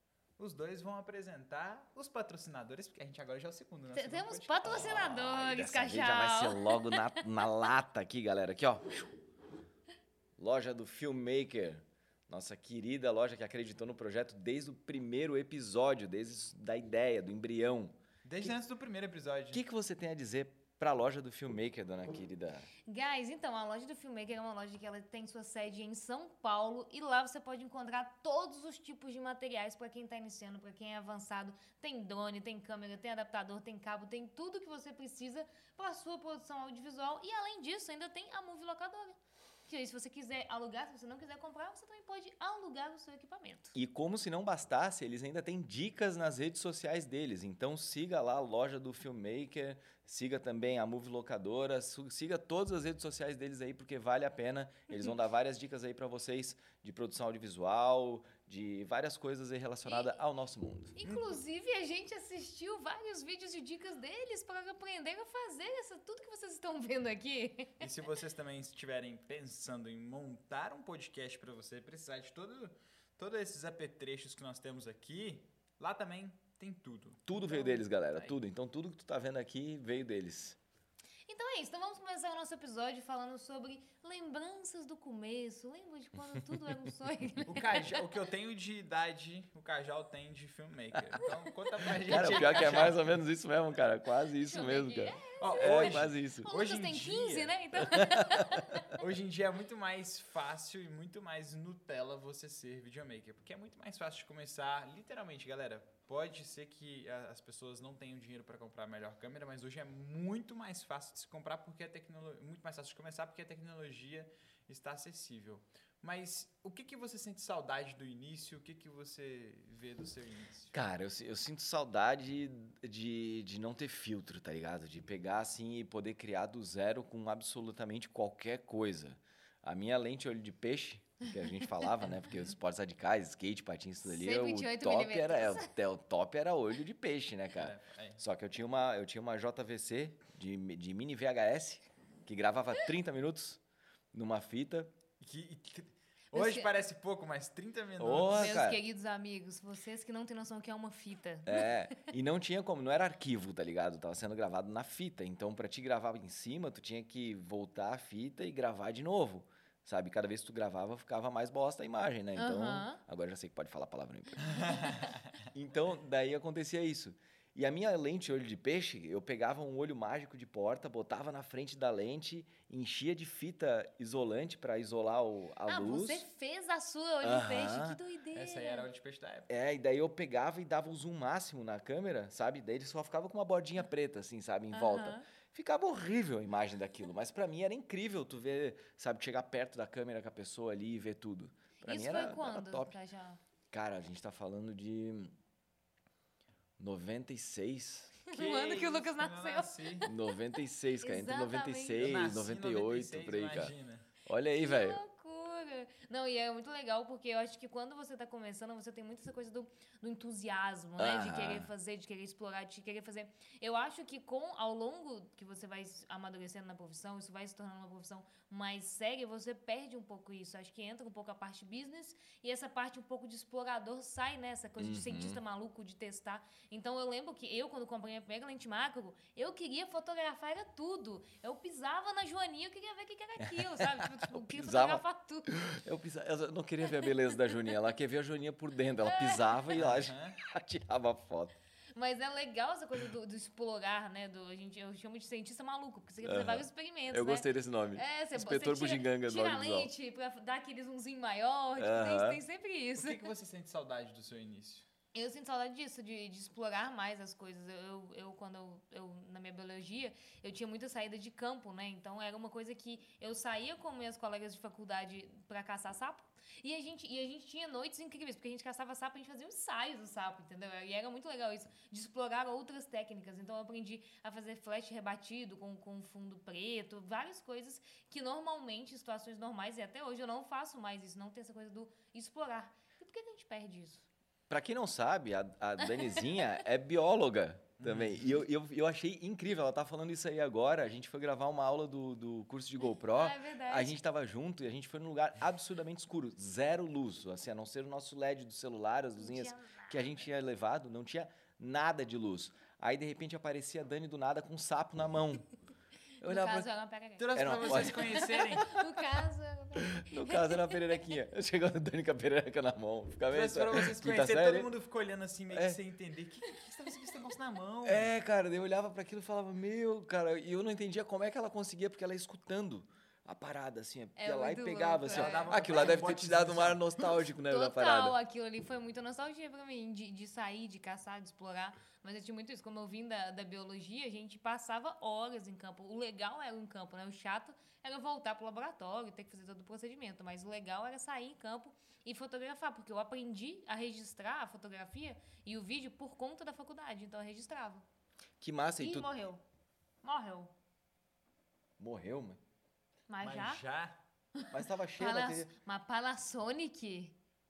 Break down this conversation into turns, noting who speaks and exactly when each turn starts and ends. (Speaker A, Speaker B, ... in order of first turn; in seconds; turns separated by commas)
Speaker A: 0.4-4.8, Speaker B: 3.9-7.5, Speaker C: 4.7-9.1, Speaker C: 10.4-18.5, Speaker A: 18.2-19.6, Speaker C: 19.5-22.7, Speaker B: 22.9-43.7, Speaker C: 43.7-61.0, Speaker B: 59.9-60.1, Speaker B: 61.0-67.9, Speaker A: 67.8-78.3, Speaker C: 77.2-80.6, Speaker B: 81.3-88.0, Speaker A: 87.5-93.1, Speaker B: 91.8-92.9, Speaker C: 92.0-96.5, Speaker B: 94.4-99.0, Speaker A: 95.4-97.6, Speaker C: 98.0-98.7, Speaker A: 98.9-120.7, Speaker C: 120.7-143.6, Speaker B: 134.1-135.7, Speaker A: 137.5-138.2, Speaker C: 144.1-144.9, Speaker A: 145.2-148.6, Speaker B: 146.3-146.7, Speaker C: 148.0-148.8, Speaker B: 148.2-151.7, Speaker C: 151.4-165.0, Speaker B: 162.3-163.0, Speaker A: 164.4-165.2, Speaker C: 165.5-176.2, Speaker B: 175.7-178.9, Speaker C: 177.2-178.0, Speaker A: 178.3-179.5, Speaker C: 179.5-192.9, Speaker B: 184.7-185.2, Speaker B: 191.8-193.4, Speaker C: 193.7-195.3, Speaker C: 196.8-198.2, Speaker B: 198.3-200.1, Speaker A: 198.3-200.1, Speaker C: 200.1-203.7, Speaker B: 201.0-202.2, Speaker A: 202.0-204.1, Speaker C: 204.2-205.0, Speaker B: 204.6-235.6, Speaker C: 211.0-211.7, Speaker C: 224.8-225.4, Speaker C: 233.4-241.6, Speaker B: 239.0-239.7, Speaker A: 239.7-240.4, Speaker B: 241.9-253.3, Speaker C: 246.2-249.9, Speaker C: 251.8-252.4, Speaker A: 252.9-254.8, Speaker B: 255.1-284.1, Speaker C: 284.5-305.5, Speaker B: 285.9-286.6, Speaker A: 287.8-288.4, Speaker B: 293.1-294.0, Speaker B: 299.2-300.2, Speaker C: 306.2-306.7, Speaker B: 306.2-310.9, Speaker A: 307.2-308.8, Speaker C: 307.3-308.6, Speaker C: 309.8-314.7, Speaker A: 313.3-318.1, Speaker C: 315.5-315.8, Speaker C: 317.8-328.1, Speaker B: 324.2-325.9, Speaker A: 325.1-326.8, Speaker B: 327.5-347.8, Speaker C: 348.4-349.1, Speaker B: 348.8-349.4, Speaker B: 350.0-350.5, Speaker C: 351.8-352.4, Speaker B: 353.1-353.6, Speaker A: 353.2-354.0, Speaker B: 354.4-357.2, Speaker C: 354.5-355.5